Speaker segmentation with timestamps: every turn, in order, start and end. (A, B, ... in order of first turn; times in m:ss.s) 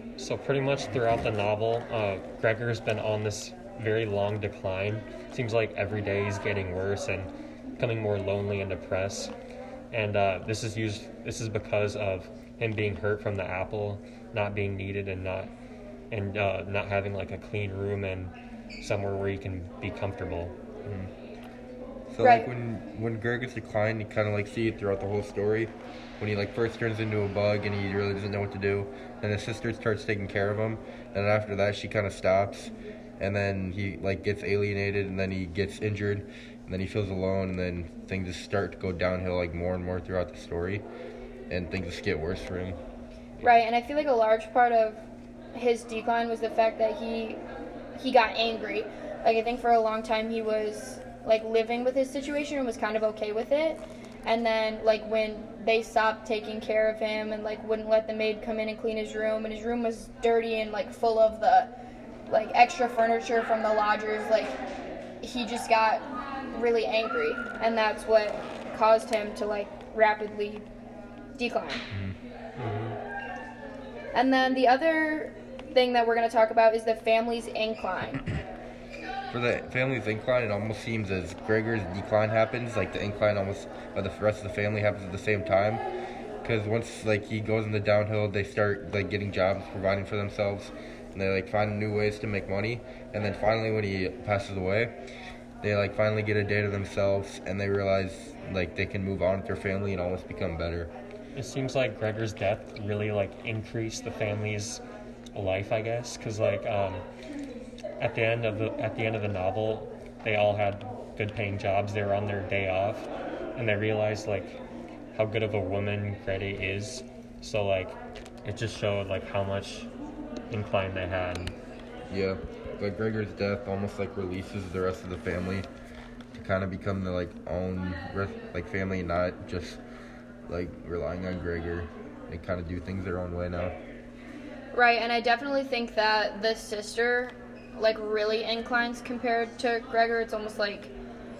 0:00.2-0:09.3 A
0:09.9-0:15.5 A
0:16.1-0:20.5 A
0:20.8-0:21.1 B
0:22.1-0:40.8 B
0:22.2-0:22.5 C
0:41.5-0:42.8 B
0:43.4-0:47.4 C
0:48.0-1:01.7 C
1:02.3-1:04.6 C
1:05.2-1:10.6 C
1:11.4-1:11.8 C
1:11.9-1:12.2 B
1:12.6-1:13.0 A
1:14.1-1:18.2 C
1:19.3-1:25.8 B
1:26.4-1:35.0 B
1:35.6-1:40.9 B
1:41.3-1:44.8 A
1:45.3-1:47.0 A
1:48.0-1:54.6 A
1:55.1-1:59.9 A
2:00.5-2:01.6 A
2:02.1-2:05.7 B
2:06.3-2:09.8 B
2:10.5-2:13.8 B
2:14.7-2:20.9 C